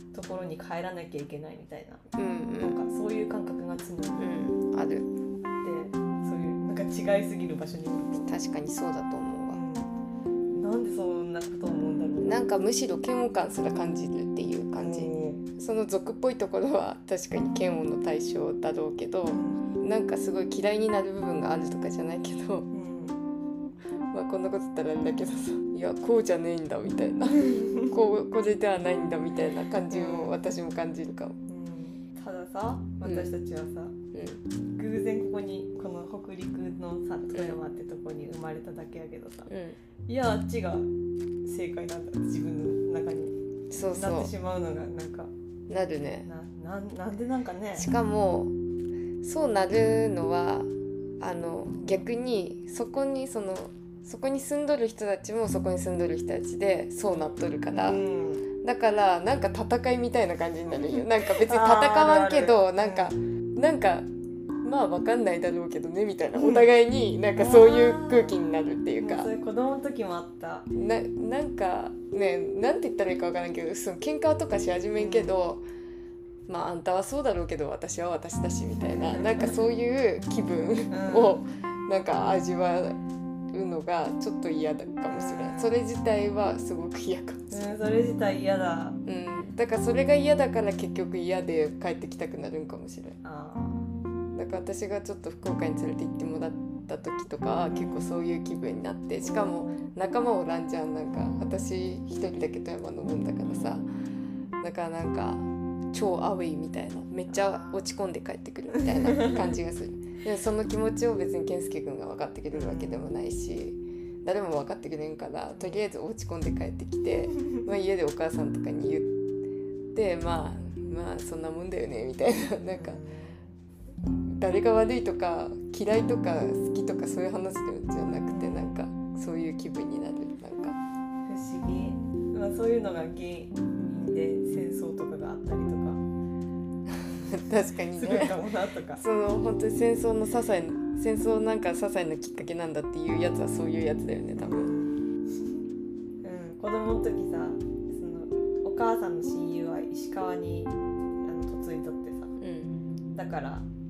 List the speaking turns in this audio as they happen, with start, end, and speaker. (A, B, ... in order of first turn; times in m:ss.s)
0:00.1-0:02.1 A
0:02.2-0:02.8 B
0:02.6-0:04.3 A
0:04.2-0:05.1 B
0:05.6-0:08.3 A
0:08.3-0:09.6 B
0:09.5-0:09.9 A
0:10.5-0:12.4 A
0:12.2-0:22.7 B
0:14.8-0:15.4 A
0:19.3-0:19.7 A
0:22.7-0:23.2 A
0:24.1-0:31.4 B
0:27.3-0:28.0 A
0:29.9-0:30.4 A
0:31.5-0:34.0 A
0:33.0-0:33.3 B
0:34.1-0:34.4 B
0:34.8-0:39.5 A
0:37.3-0:37.6 B
0:39.5-0:39.8 B
0:40.1-0:40.9 A
0:41.4-0:43.4 A
0:43.7-0:44.3 B
0:43.9-0:45.3 A
0:45.7-0:46.3 B
0:46.2-0:47.9 A
0:47.8-0:48.5 B
0:49.2-0:58.0 B
0:57.1-0:58.5 A
0:58.6-1:04.1 B
1:01.2-1:03.1 A
1:04.6-1:09.3 B
1:06.4-1:06.7 A
1:07.4-1:08.4 A
1:09.0-1:10.7 A
1:10.7-1:15.6 B
1:15.0-1:15.3 A
1:16.5-1:23.0 B
1:19.0-1:19.5 A
1:20.9-1:21.4 A
1:23.5-1:27.7 B
1:25.1-1:25.8 A
1:27.5-1:29.0 A
1:29.0-1:33.2 B
1:33.2-1:33.9 A
1:34.3-1:43.9 B
1:37.7-1:38.1 A
1:39.2-1:39.8 A
1:43.4-1:43.8 A
1:44.6-1:59.2 B
1:47.3-1:47.8 A
1:48.9-1:49.6 A
1:52.5-1:53.1 A
1:55.5-1:55.8 A
1:59.9-2:03.0 B
2:02.7-2:03.4 A
2:04.4-2:10.8 B
2:08.2-2:08.8 A
2:11.3-2:16.0 A
2:16.9-2:18.4 B
2:17.9-2:19.0 A
2:19.0-2:24.7 B
2:24.4-2:25.6 A
2:26.2-2:32.4 A
2:32.4-2:32.7 B
2:33.2-2:33.7 A